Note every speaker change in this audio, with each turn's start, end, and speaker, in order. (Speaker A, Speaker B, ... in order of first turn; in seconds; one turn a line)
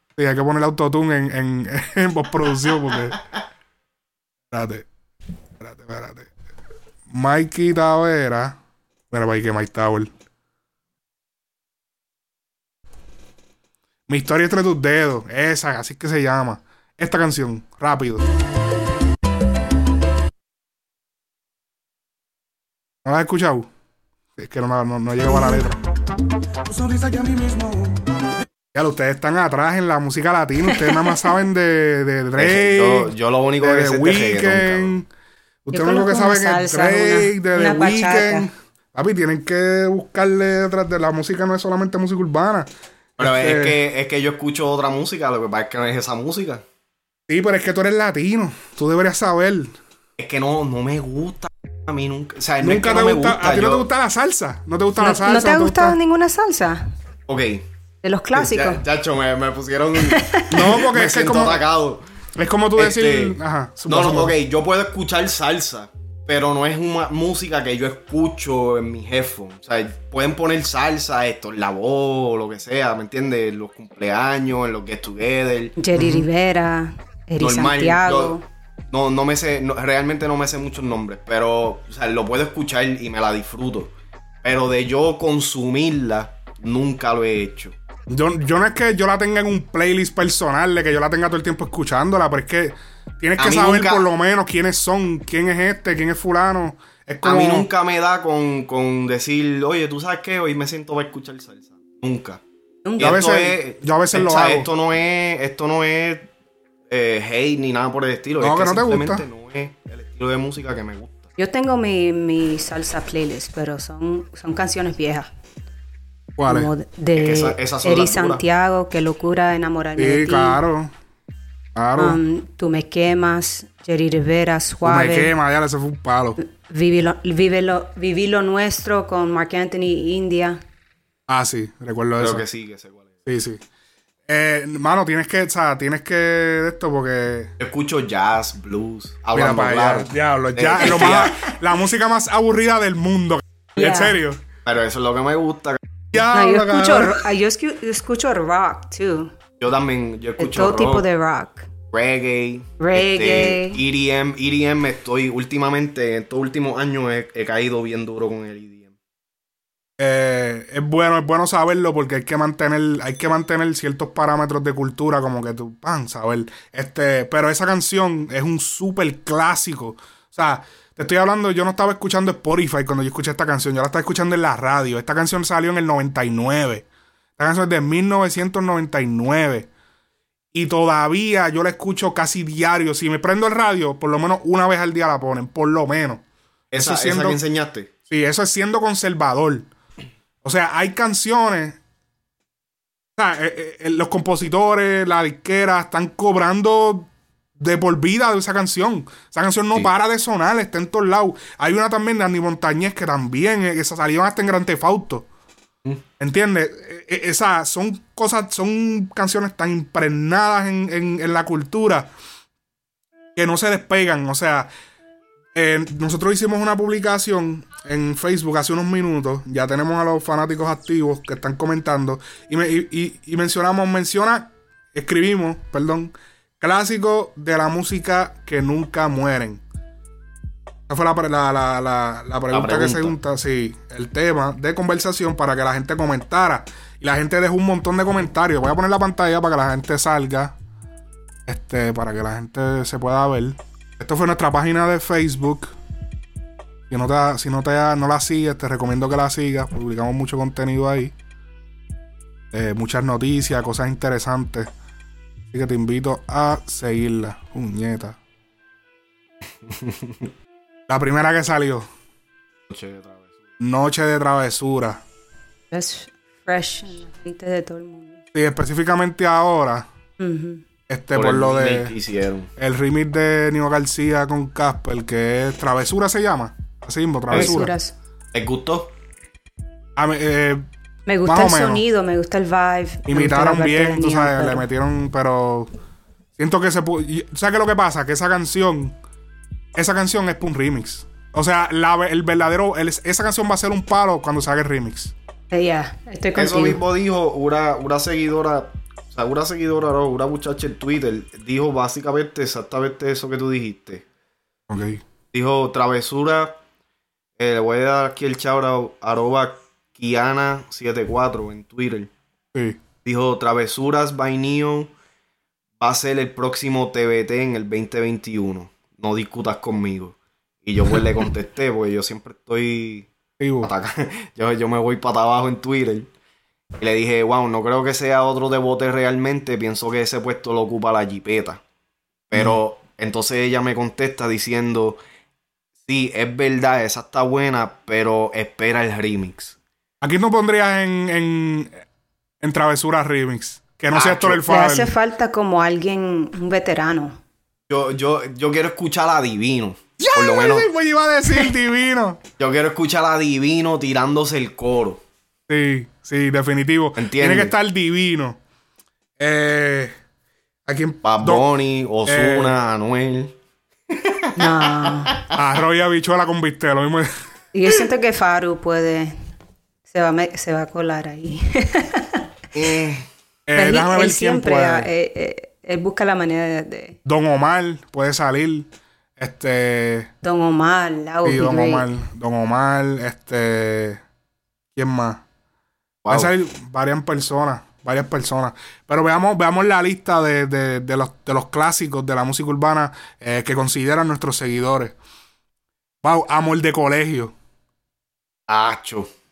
Speaker A: 0.2-3.2
Speaker A: 4.5-4.9
Speaker A: 5.6-6.3
Speaker A: 7.1-8.6
Speaker A: 9.1-10.1
Speaker A: 14.1-18.2
Speaker A: 23.1-23.7
Speaker A: 24.4-25.8
Speaker A: 26.8-27.8
Speaker A: 28.7-35.1
Speaker B: 30.7-31.0
Speaker C: 32.4-35.0
Speaker A: 35.7-43.8
Speaker B: 35.7-38.5
Speaker C: 43.2-46.6
Speaker A: 47.3-49.8
Speaker C: 50.2-53.9
Speaker A: 52.6-56.0
Speaker B: 55.0-56.9
Speaker C: 57.3-57.7
Speaker B: 58.0-58.8
Speaker C: 58.3-62.0
Speaker B: 60.0-60.8
Speaker A: 60.5-61.6
Speaker A: 62.4-64.3
Speaker C: 62.8-76.3
Speaker B: 75.8-78.4
Speaker C: 77.4-78.4
Speaker C: 78.9-83.9
Speaker C: 84.4-87.8
Speaker A: 88.1-97.7
Speaker C: 93.4-94.1
Speaker C: 97.2-102.4
Speaker B: 102.8-103.2
Speaker C: 103.0-106.3
Speaker A: 103.0-104.7
Speaker C: 106.9-111.2
Speaker A: 108.4-109.2
Speaker B: 111.4-115.3
Speaker A: 116.4-116.7
Speaker B: 116.5-120.6
Speaker C: 117.2-118.4
Speaker A: 120.0-120.9
Speaker A: 121.8-122.2
Speaker B: 122.0-125.3
Speaker A: 124.8-126.4
Speaker B: 126.4-130.6
Speaker A: 131.3-132.4
Speaker C: 132.2-133.1
Speaker A: 133.3-133.6
Speaker A: 134.3-137.5
Speaker C: 137.6-141.4
Speaker A: 139.3-144.4
Speaker B: 143.8-144.2
Speaker C: 144.7-145.8
Speaker A: 146.1-147.3
Speaker B: 146.3-149.3
Speaker C: 149.6-151.1
Speaker B: 150.4-151.7
Speaker C: 151.9-158.9
Speaker B: 152.8-153.8
Speaker A: 160.0-176.9
Speaker A: 177.4-179.7
Speaker A: 180.5-186.2
Speaker C: 186.7-187.9
Speaker A: 186.8-187.4
Speaker A: 188.1-189.7
Speaker A: 190.4-191.8
Speaker A: 193.2-205.3
Speaker A: 206.2-212.1
Speaker A: 213.4-214.7
Speaker A: 215.6-229.6
Speaker A: 230.9-240.6
Speaker C: 232.5-233.2
Speaker A: 241.5-245.7
Speaker A: 246.9-251.2
Speaker A: 252.5-254.7
Speaker A: 255.5-258.2
Speaker C: 259.6-260.3
Speaker A: 260.9-261.9
Speaker C: 262.7-263.3
Speaker A: 263.6-265.0
Speaker B: 265.7-268.2
Speaker A: 268.3-269.9
Speaker B: 270.2-270.6
Speaker A: 270.9-271.9
Speaker C: 271.1-272.5
Speaker A: 272.6-277.7
Speaker B: 277.3-277.9
Speaker C: 278.3-278.9
Speaker A: 280.0-280.6
Speaker B: 281.1-284.7
Speaker A: 281.2-281.8
Speaker A: 283.1-285.7
Speaker A: 286.4-289.0
Speaker A: 289.8-295.1
Speaker B: 295.5-296.8
Speaker C: 296.3-304.1
Speaker A: 304.7-305.0
Speaker C: 305.3-306.6
Speaker C: 307.4-312.1
Speaker A: 312.5-312.8
Speaker C: 313.0-314.9
Speaker C: 315.8-323.1
Speaker A: 323.4-323.7
Speaker C: 323.6-326.1
Speaker C: 326.8-331.6
Speaker C: 332.3-335.0
Speaker A: 332.3-332.6
Speaker C: 335.9-339.6
Speaker A: 340.0-341.8
Speaker A: 342.4-344.9
Speaker C: 343.9-344.4
Speaker B: 344.5-347.2
Speaker C: 347.7-350.7
Speaker A: 350.0-352.2
Speaker C: 352.4-355.0
Speaker A: 355.5-358.4
Speaker C: 357.0-357.5
Speaker A: 359.2-359.9
Speaker A: 360.7-361.5
Speaker C: 361.0-363.4
Speaker A: 362.1-362.6
Speaker C: 363.9-365.4
Speaker B: 364.4-365.2
Speaker A: 365.3-367.1
Speaker B: 367.5-369.1
Speaker B: 369.9-372.2
Speaker C: 372.5-373.1
Speaker A: 373.5-374.9
Speaker B: 373.6-377.0
Speaker A: 377.1-378.7
Speaker A: 379.2-380.1
Speaker B: 380.2-381.9
Speaker A: 381.2-384.0
Speaker A: 384.8-385.2
Speaker C: 386.0-386.3
Speaker A: 386.1-394.9
Speaker A: 396.0-397.3
Speaker C: 398.5-399.1